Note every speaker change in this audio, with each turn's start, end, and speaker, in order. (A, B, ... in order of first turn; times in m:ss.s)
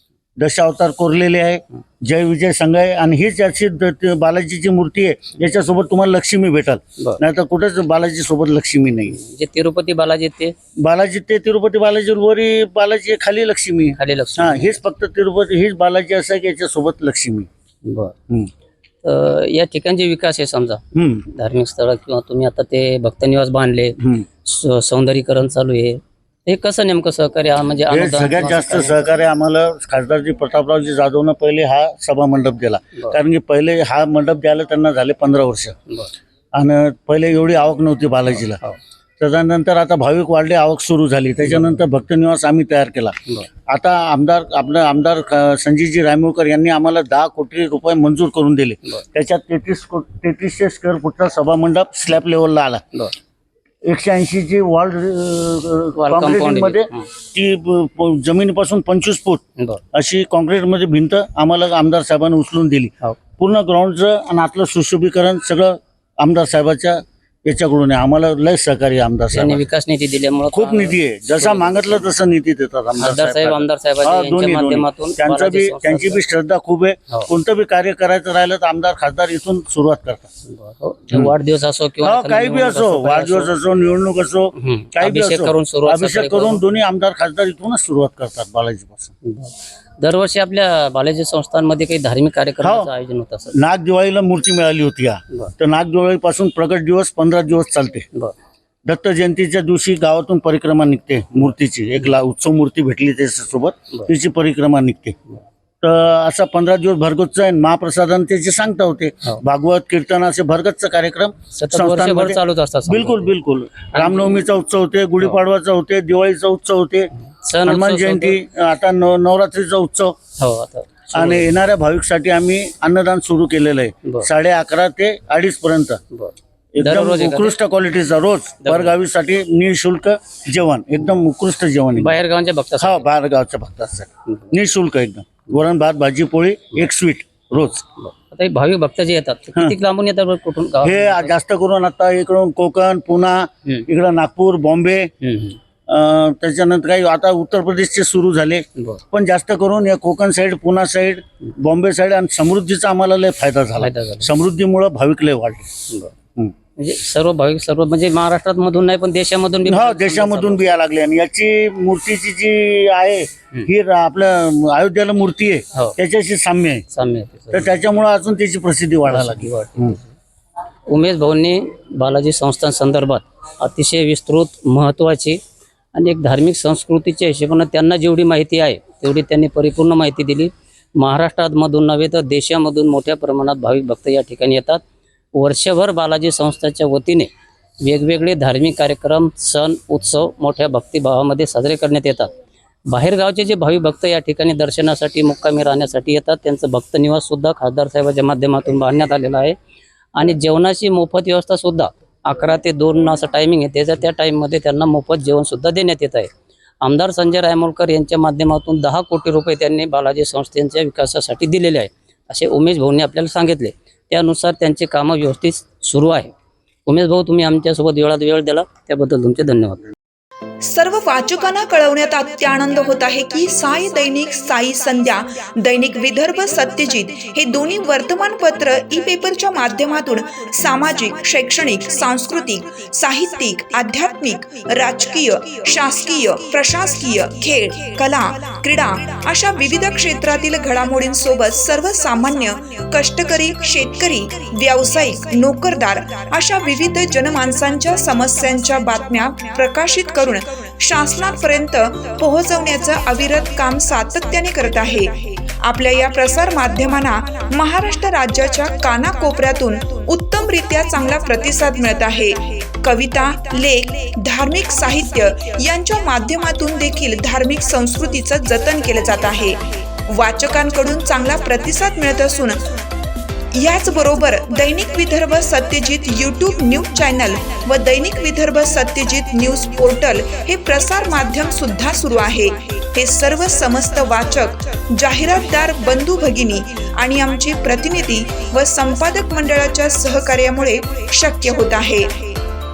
0:00.4-0:09.2 A
0:09.1-0:10.6 B
0:10.8-0:17.5 A
0:14.0-0:14.8 B
0:17.8-0:18.2 B
0:19.0-0:29.0 B
0:20.9-0:21.3 A
0:24.0-0:24.3 A
0:27.9-0:35.8 A
0:36.5-0:38.6 A
0:39.2-0:43.2 A
0:43.7-0:52.8 A
0:53.8-0:59.4 A
0:56.0-0:57.1 B
0:59.9-1:09.6 A
1:09.3-1:12.1 B
1:10.5-1:20.3 A
1:13.0-1:16.2 B
1:20.5-1:23.6 B
1:22.0-1:29.1 A
1:24.6-1:26.6 B
1:29.2-1:33.6 B
1:32.6-1:32.9 A
1:33.5-1:38.1 A
1:38.9-1:45.2 A
1:45.8-1:57.1 A
1:51.5-1:53.3 B
1:53.9-1:54.5 B
1:57.4-1:58.4 B
1:57.6-2:00.2 A
2:00.4-2:01.5 B
2:01.1-2:06.0 A
2:06.1-2:07.6 B
2:06.7-2:12.2 A
2:08.6-2:08.9 B
2:12.0-2:13.0 B
2:12.8-2:17.8 A
2:18.0-2:21.3 B
2:20.8-2:25.1 A
2:25.2-2:25.6 B
2:25.9-2:35.7 A
2:33.8-2:34.3 B
2:36.8-2:40.7 B
2:39.6-2:46.8 A
2:46.9-2:47.7 B
2:47.5-2:50.0 A
2:49.1-2:50.1 B
2:50.9-2:55.4 B
2:56.0-3:04.8 B
3:05.4-3:07.3 B
3:07.8-3:12.3 B
3:12.9-3:19.6 B
3:20.2-3:26.3 B
3:26.8-3:36.3 B
3:36.9-3:39.9 B
3:40.6-4:32.8 C
4:33.5-4:52.4 C